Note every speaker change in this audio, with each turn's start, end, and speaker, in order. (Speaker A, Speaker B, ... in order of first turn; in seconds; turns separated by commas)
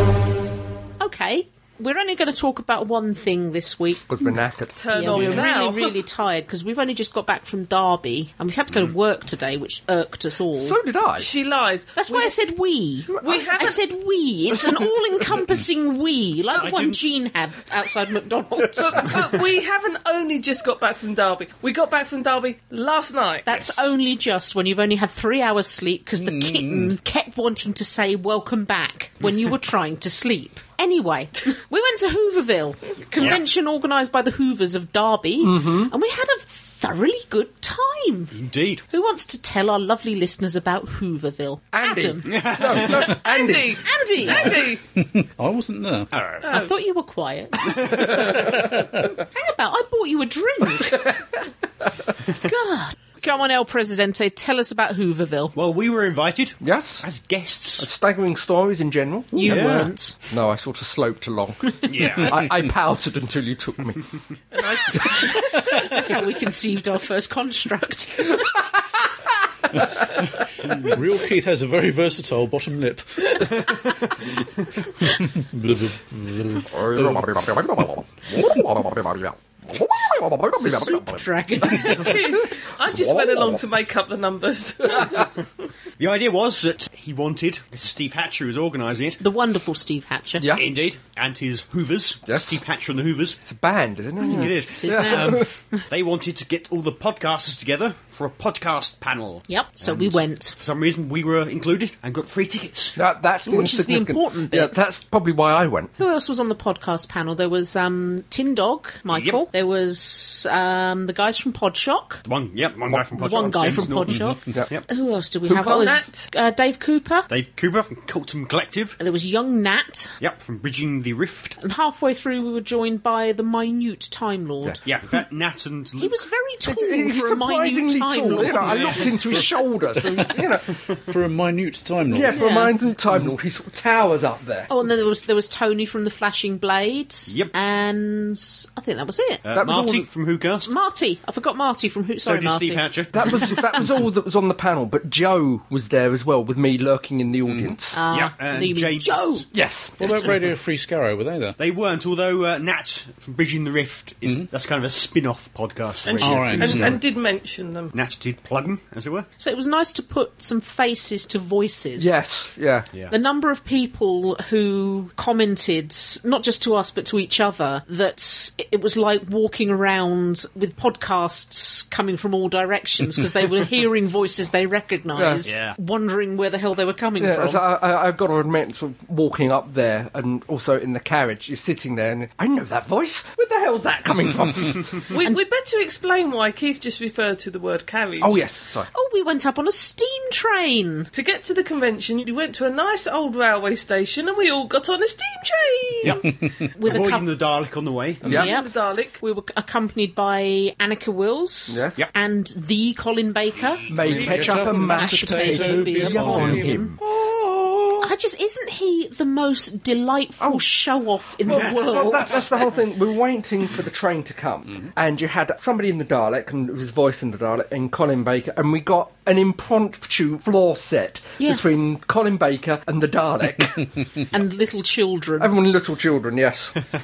Speaker A: 1.0-4.1, Speaker B: 4.1-5.4, Speaker C: 4.8-6.0, Speaker A: 4.9-10.8, Speaker B: 10.6-11.3, Speaker C: 11.2-12.4, Speaker A: 11.9-19.1, Speaker C: 13.2-13.8, Speaker D: 16.6-17.0, Speaker C: 18.8-23.6, Speaker A: 23.4-38.4, Speaker E: 26.2-26.9, Speaker D: 33.2-33.4, Speaker B: 35.4-35.9, Speaker D: 38.3-38.8, Speaker A: 38.9-42.4, Speaker B: 41.7-43.8, Speaker D: 42.2-43.1, Speaker C: 42.8-44.8, Speaker A: 43.8-44.6, Speaker E: 44.2-46.1, Speaker D: 46.1-46.5, Speaker C: 46.4-46.7, Speaker A: 46.5-48.7, Speaker B: 48.1-48.7, Speaker E: 48.5-48.9, Speaker A: 49.3-51.1, Speaker B: 50.8-51.2, Speaker A: 52.4-55.5, Speaker D: 55.5-57.9, Speaker B: 56.6-57.0, Speaker B: 57.8-64.1, Speaker A: 59.3-60.1, Speaker D: 59.4-59.9, Speaker D: 61.9-62.4, Speaker C: 64.5-66.1, Speaker B: 64.9-65.2, Speaker A: 65.8-68.4, Speaker E: 70.7-73.7, Speaker E: 75.0-77.3, Speaker B: 76.7-83.6, Speaker A: 80.5-82.2, Speaker C: 81.6-85.3, Speaker D: 86.0-89.2, Speaker A: 89.2-90.5, Speaker B: 90.4-90.7, Speaker D: 90.5-93.4, Speaker B: 92.3-92.6, Speaker B: 93.4-95.5, Speaker D: 94.2-103.0, Speaker A: 94.4-95.8, Speaker A: 99.5-100.5, Speaker B: 103.0-105.9, Speaker A: 103.4-104.8, Speaker A: 106.0-112.2, Speaker D: 109.1-109.4, Speaker D: 112.2-114.1, Speaker B: 112.9-114.0, Speaker A: 113.2-117.3, Speaker E: 114.1-114.4, Speaker C: 115.5-116.3, Speaker D: 117.3-119.0, Speaker A: 119.0-120.1, Speaker D: 120.2-121.6, Speaker A: 121.6-124.8, Speaker D: 124.8-126.2, Speaker A: 126.0-129.1, Speaker B: 126.6-130.7, Speaker E: 128.6-129.5, Speaker E: 131.1-132.4, Speaker B: 132.1-134.7, Speaker A: 132.3-132.8, Speaker A: 134.7-139.4, Speaker D: 139.4-140.7, Speaker B: 139.5-140.1, Speaker A: 140.7-143.5, Speaker D: 142.2-143.2, Speaker B: 143.1-148.0, Speaker E: 147.4-147.8, Speaker A: 147.9-149.4, Speaker D: 148.1-149.4, Speaker B: 149.5-150.3, Speaker E: 150.0-151.6, Speaker D: 150.0-150.3, Speaker D: 151.6-157.0, Speaker C: 156.1-157.9, Speaker E: 156.2-157.0, Speaker D: 157.9-159.3, Speaker A: 159.4-162.2, Speaker B: 162.0-162.9, Speaker A: 163.1-177.6, Speaker B: 175.1-175.4, Speaker D: 175.4-175.8, Speaker B: 177.2-185.0, Speaker C: 185.1-188.4, Speaker B: 188.2-188.9, Speaker A: 188.9-191.1, Speaker C: 191.1-196.2, Speaker A: 196.7-197.3, Speaker D: 196.8-198.2, Speaker B: 198.2-198.5, Speaker C: 198.2-199.2, Speaker A: 198.3-206.9, Speaker B: 201.7-202.1, Speaker B: 203.9-208.1, Speaker E: 204.0-206.8, Speaker A: 208.0-212.7, Speaker B: 210.4-210.6, Speaker B: 211.4-223.9, Speaker A: 224.3-225.5, Speaker B: 225.4-226.8